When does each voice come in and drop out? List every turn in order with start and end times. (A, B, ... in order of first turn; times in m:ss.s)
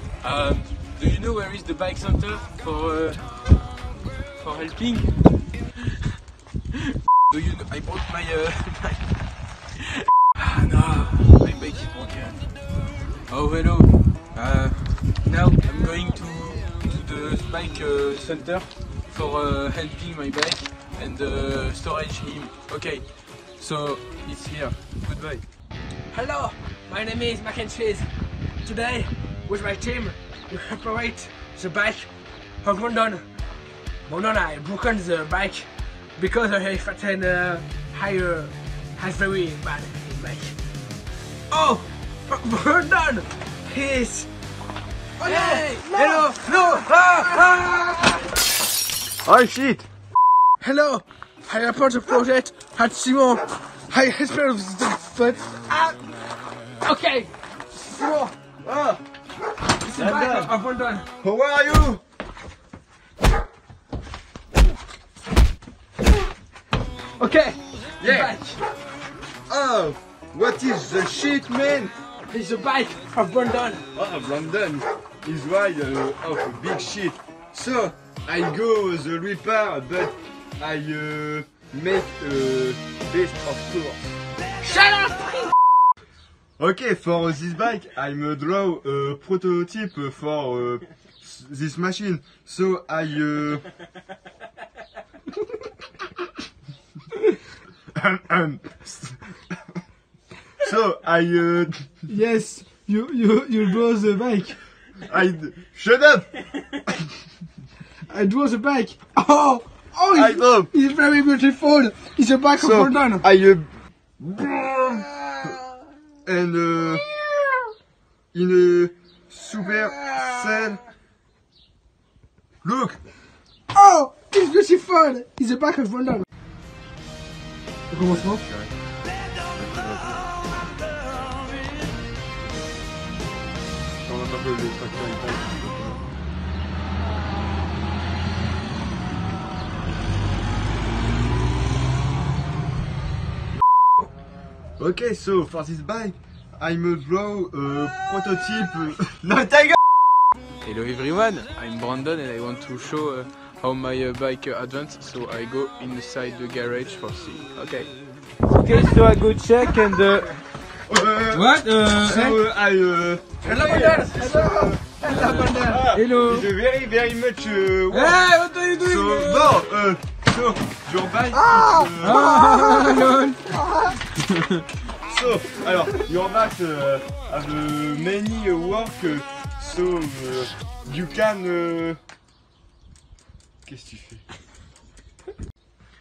0:00.2-0:03.3 A
0:04.4-0:05.8 A
0:06.8-0:09.2 A
0:10.0-0:12.4 A
0:13.3-0:25.4 A
0:26.1-0:28.1 B
0:28.6-0:32.1 B
0:32.6-0:33.2 B
0:34.1-0:40.6 B
0:41.5-0:44.3 B
0:45.2-0:48.2 B
0:45.2-0:47.8 A
0:49.2-0:49.9 C
0:50.6-0:56.0 B
0:56.8-0:57.3 B
0:57.8-0:58.3 B
0:58.6-0:59.0 C
0:59.8-1:01.1 B
0:59.9-1:00.5 C
1:01.2-1:02.0 C
1:07.2-1:08.6 B
1:08.0-1:08.3 C
1:09.5-1:11.9 C
1:12.3-1:13.8 B
1:13.9-1:24.1 C
1:24.6-1:25.5 B
1:26.6-1:33.7 C
1:37.9-1:39.3 C
1:40.6-1:41.9 C
1:42.1-1:44.6 B
1:45.0-1:46.9 C
1:48.1-1:53.2 B
1:50.1-1:50.7 C
1:52.6-1:55.5 C
1:56.2-1:57.1 C
1:58.3-2:00.8 C
2:02.6-2:03.0 C
2:03.7-2:06.3 B
2:07.9-2:08.4 B
2:08.0-2:08.7 C
2:09.6-2:10.2 C
2:14.0-2:16.0 C
2:24.8-2:29.8 C
2:30.6-2:37.9 A
2:38.5-2:40.4 A
2:40.9-2:52.4 C
2:41.3-2:42.3 A
2:42.0-2:42.3 B
2:43.4-2:45.9 B
2:45.9-2:46.5 A
2:47.9-2:49.6 A
2:51.4-2:53.6 B
2:52.0-2:54.6 A
2:55.0-3:02.0 C
3:03.6-3:04.2 C